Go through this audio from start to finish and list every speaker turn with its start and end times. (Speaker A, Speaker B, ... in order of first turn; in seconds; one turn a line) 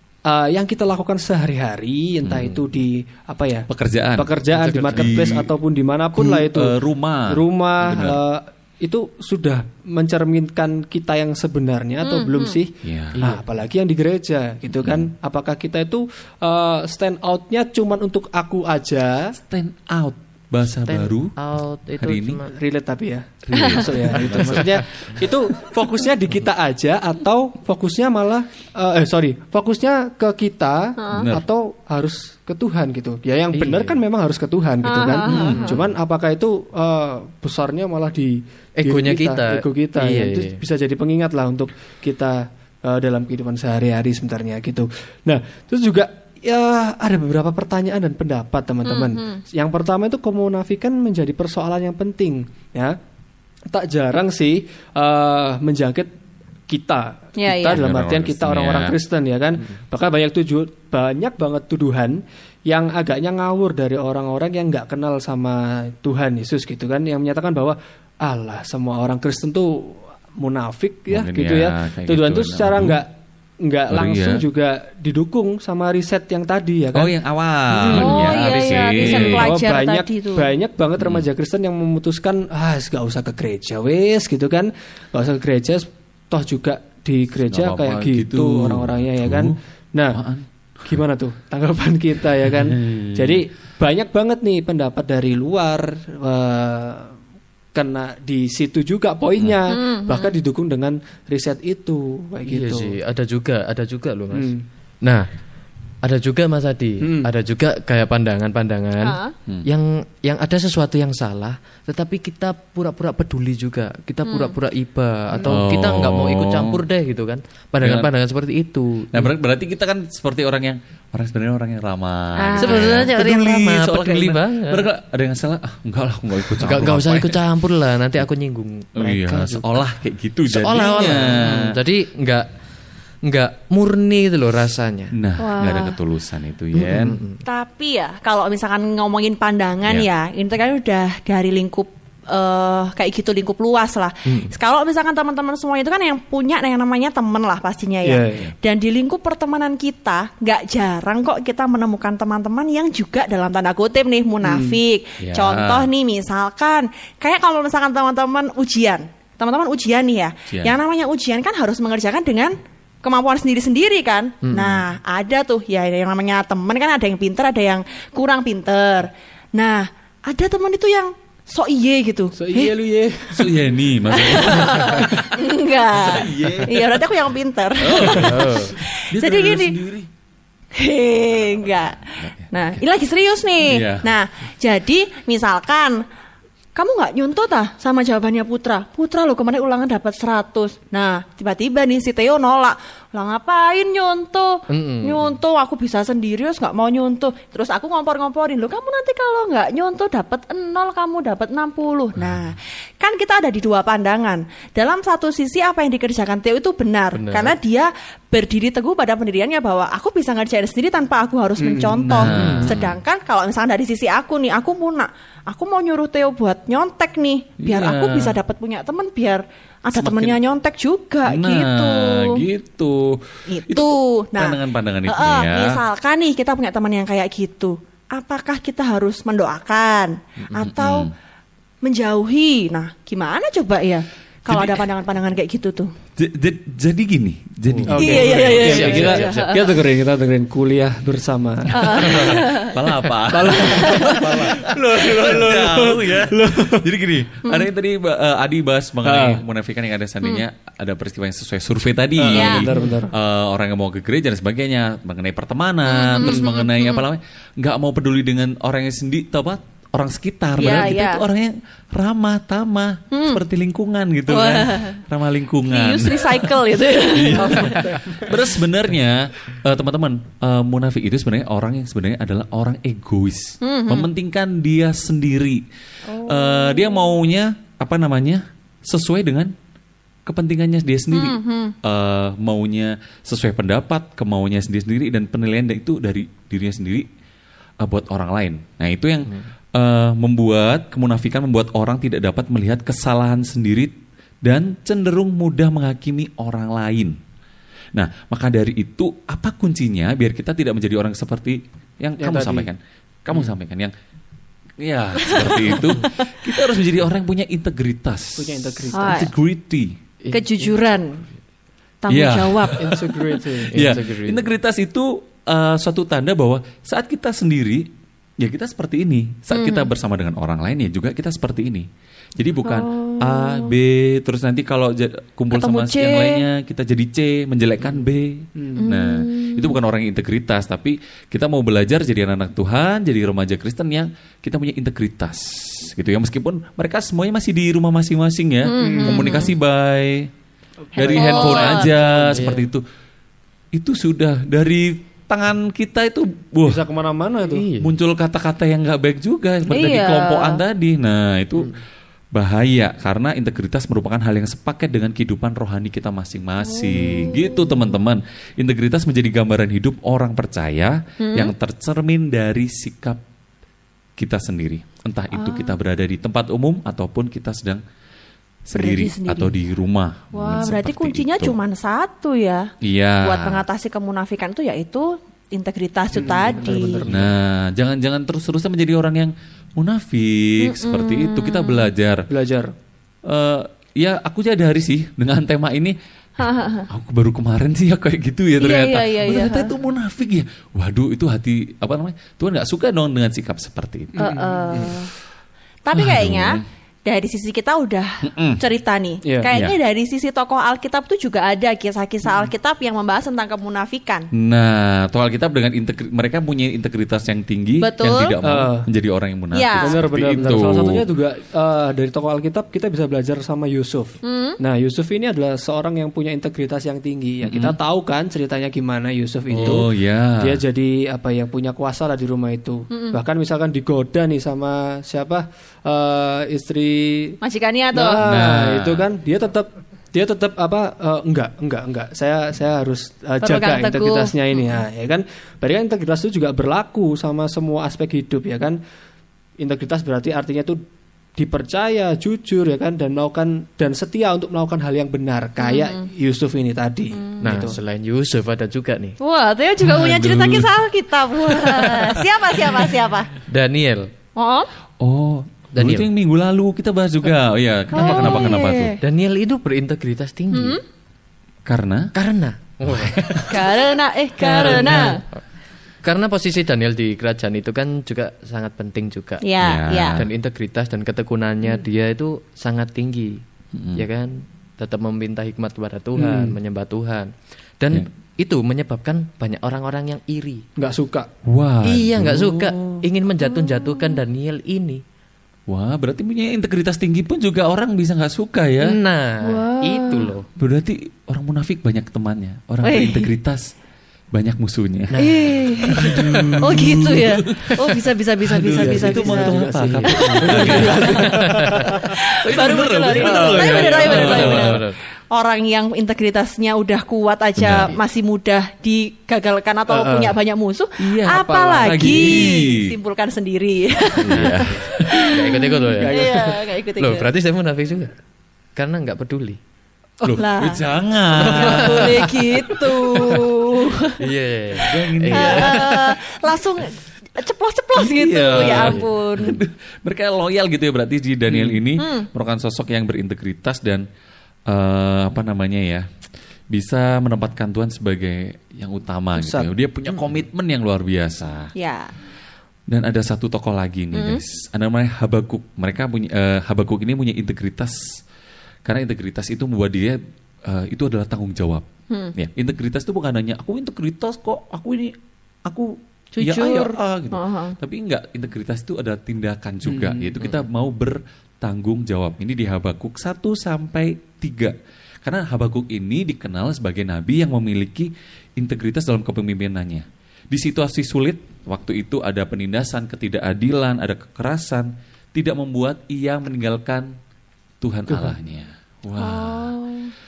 Speaker A: 0.2-6.7
Speaker B: 2.2-2.6
Speaker B: 3.7-4.3
Speaker C: 4.5-5.1
Speaker B: 4.9-5.5
Speaker B: 6.1-8.2
Speaker A: 7.3-19.3
Speaker D: 12.0-12.6
Speaker B: 12.8-13.2
Speaker C: 13.2-13.4
Speaker B: 14.8-15.1
Speaker B: 19.3-21.3
Speaker C: 20.9-22.5
Speaker B: 22.0-22.4
Speaker A: 22.5-53.0
Speaker B: 23.5-25.2
Speaker D: 23.5-23.9
Speaker C: 24.1-25.1
Speaker D: 31.0-31.3
Speaker B: 31.1-31.4
Speaker C: 33.5-34.0
Speaker D: 34.8-35.7
Speaker B: 35.2-35.7
Speaker C: 35.5-35.9
Speaker C: 38.8-40.6
Speaker D: 48.9-49.4
Speaker A: 53.7-56.1
Speaker A: 56.7-77.1
Speaker D: 57.4-57.8
Speaker B: 57.7-59.0
Speaker B: 71.1-73.0
Speaker B: 73.9-74.4
Speaker B: 76.9-79.5
Speaker A: 77.9-78.1
Speaker D: 77.9-80.5
Speaker A: 79.0-90.2
Speaker B: 81.0-81.2
Speaker B: 87.5-89.6
Speaker B: 90.1-91.0
Speaker A: 90.8-97.2
Speaker B: 92.5-93.4
Speaker A: 97.7-103.0
Speaker D: 99.7-100.3
Speaker C: 102.4-105.3
Speaker A: 104.3-104.6
Speaker C: 106.0-119.3
Speaker A: 107.0-107.3
Speaker D: 109.0-109.3
Speaker D: 114.3-114.5
Speaker B: 115.5-116.8
Speaker B: 117.8-118.1
Speaker B: 119.1-127.4
Speaker D: 122.5-123.0
Speaker C: 122.6-124.9
Speaker C: 126.5-129.8
Speaker B: 129.0-131.8
Speaker C: 130.5-132.5
Speaker C: 133.2-135.1
Speaker B: 135.1-137.2
Speaker D: 135.4-135.9
Speaker C: 136.7-137.4
Speaker D: 137.4-172.7
Speaker C: 144.2-144.5
Speaker A: 148.0-148.4
Speaker A: 154.4-154.8
Speaker B: 155.2-155.9
Speaker B: 160.5-160.8
Speaker C: 164.4-164.9
Speaker A: 172.3-173.5
Speaker B: 173.3-175.2
Speaker D: 174.1-179.8
Speaker B: 175.9-177.0
Speaker B: 177.8-180.1
Speaker C: 178.2-178.8
Speaker D: 180.7-186.0
Speaker B: 181.9-182.8
Speaker B: 183.6-184.1
Speaker D: 186.7-222.4
Speaker C: 194.7-195.4
Speaker C: 207.1-207.6
Speaker A: 211.6-212.7
Speaker B: 211.8-213.0
Speaker C: 212.3-212.8
Speaker B: 217.6-218.4
Speaker B: 219.9-220.4
Speaker B: 221.2-225.8
Speaker D: 223.5-231.1
Speaker B: 230.5-231.1
Speaker D: 231.8-235.9
Speaker B: 234.5-234.8
Speaker B: 236.2-239.2
Speaker C: 237.7-239.7
Speaker A: 237.9-242.4
Speaker D: 237.9-239.7
Speaker D: 241.7-242.8
Speaker B: 241.9-279.5
Speaker A: 243.3-246.8
Speaker D: 243.6-244.2
Speaker A: 249.0-249.4
Speaker A: 252.2-253.1
Speaker D: 252.3-252.7
Speaker D: 255.9-257.0
Speaker D: 260.6-261.2
Speaker D: 263.1-263.4
Speaker D: 264.3-265.0
Speaker D: 265.6-268.2
Speaker A: 267.6-268.1
Speaker D: 273.6-274.1
Speaker D: 276.1-277.1
Speaker B: 280.3-287.1
Speaker D: 281.1-281.7
Speaker B: 287.8-297.1
Speaker B: 297.9-303.9
Speaker A: 302.2-302.7
Speaker B: 304.8-309.9
Speaker D: 305.2-306.3
Speaker A: 308.4-309.3
Speaker D: 308.9-309.3
Speaker C: 310.2-310.8
Speaker D: 310.3-311.2
Speaker D: 312.0-312.8
Speaker B: 312.1-313.1
Speaker A: 312.7-313.9
Speaker B: 313.6-340.3
Speaker C: 313.7-314.4
Speaker D: 319.5-319.9
Speaker D: 322.6-323.7
Speaker D: 325.5-326.4
Speaker A: 328.6-328.9
Speaker D: 328.8-329.7
Speaker D: 338.6-339.5
Speaker A: 338.8-339.4
Speaker A: 340.9-341.4
Speaker B: 340.9-342.8
Speaker D: 341.0-342.0
Speaker A: 342.1-342.4
Speaker C: 342.3-342.6
Speaker B: 343.7-346.8
Speaker A: 346.6-347.6
Speaker C: 347.5-347.9
Speaker B: 347.8-351.8
Speaker D: 349.7-350.6
Speaker B: 352.3-363.2
Speaker D: 356.8-357.5
Speaker D: 361.2-361.5
Speaker B: 364.2-367.8
Speaker D: 365.3-365.7
Speaker B: 368.7-371.6
Speaker D: 368.7-369.5
Speaker D: 370.3-372.7
Speaker B: 372.8-373.6
Speaker D: 373.2-377.1
Speaker A: 376.1-377.3
Speaker B: 377.1-382.3
Speaker D: 380.6-381.9
Speaker A: 382.3-382.7
Speaker B: 383.2-394.7
Speaker D: 386.4-386.9
Speaker D: 388.6-389.7
Speaker A: 394.1-395.0
Speaker D: 394.2-395.1
Speaker D: 395.8-404.3
Speaker B: 395.9-396.6
Speaker B: 398.2-398.6
Speaker B: 399.5-399.8
Speaker B: 404.3-411.1
Speaker D: 407.8-408.3
Speaker A: 408.4-408.9
Speaker D: 409.5-410.0
Speaker A: 409.8-427.4
Speaker D: 414.2-414.6
Speaker B: 417.4-417.8
Speaker B: 419.5-420.6
Speaker D: 422.9-423.2
Speaker D: 427.4-428.2
Speaker A: 427.9-438.8
Speaker B: 428.2-429.1
Speaker D: 433.4-434.3
Speaker A: 439.6-440.8
Speaker A: 441.4-447.8
Speaker D: 445.6-446.1
Speaker D: 447.2-447.6
Speaker C: 447.4-449.2
Speaker D: 449.2-453.3
Speaker B: 449.8-450.7
Speaker B: 451.5-452.2
Speaker C: 453.5-454.1
Speaker D: 454.4-454.7
Speaker B: 455.0-459.0
Speaker C: 455.7-456.1
Speaker D: 457.9-459.0
Speaker C: 458.0-460.8
Speaker D: 460.5-460.8
Speaker B: 461.6-462.1
Speaker C: 462.1-463.7
Speaker B: 462.9-463.4
Speaker D: 463.5-465.2
Speaker C: 464.4-465.4
Speaker C: 466.0-469.4
Speaker D: 469.4-470.1
Speaker B: 469.6-470.3
Speaker C: 470.1-473.4
Speaker B: 473.7-474.1
Speaker C: 473.9-480.6
Speaker A: 476.1-476.6
Speaker A: 480.8-481.3
Speaker B: 481.4-483.0
Speaker C: 481.8-485.0
Speaker D: 483.5-484.1
Speaker B: 485.7-489.0
Speaker C: 488.8-490.5
Speaker D: 489.4-490.3
Speaker B: 490.6-493.7
Speaker D: 492.8-493.3
Speaker B: 494.3-495.2
Speaker C: 495.1-495.6
Speaker D: 495.2-501.3
Speaker B: 495.9-501.3
Speaker A: 498.7-502.1
Speaker C: 501.1-501.9
Speaker D: 501.9-517.3
Speaker B: 502.2-504.8
Speaker C: 503.3-505.0
Speaker B: 507.6-508.0
Speaker A: 509.9-510.4
Speaker B: 511.0-513.0
Speaker B: 514.2-515.0
Speaker C: 514.3-518.1
Speaker A: 516.0-516.5
Speaker C: 518.8-519.6
Speaker D: 520.2-520.8
Speaker B: 520.2-523.3
Speaker C: 521.3-522.8
Speaker D: 521.4-524.2
Speaker C: 524.2-526.1
Speaker B: 524.8-525.9
Speaker D: 525.3-529.6
Speaker B: 527.9-534.0
Speaker C: 528.5-529.1
Speaker C: 531.5-531.8
Speaker D: 532.0-532.3
Speaker B: 534.7-536.0
Speaker B: 536.7-541.7
Speaker A: 539.3-539.7
Speaker D: 541.7-542.1
Speaker B: 542.9-548.2
Speaker D: 544.1-544.4
Speaker B: 548.8-555.1
Speaker B: 555.6-577.1
Speaker D: 556.4-557.7
Speaker A: 559.9-560.4
Speaker B: 577.8-579.8
Speaker A: 578.1-578.4
Speaker D: 579.2-580.1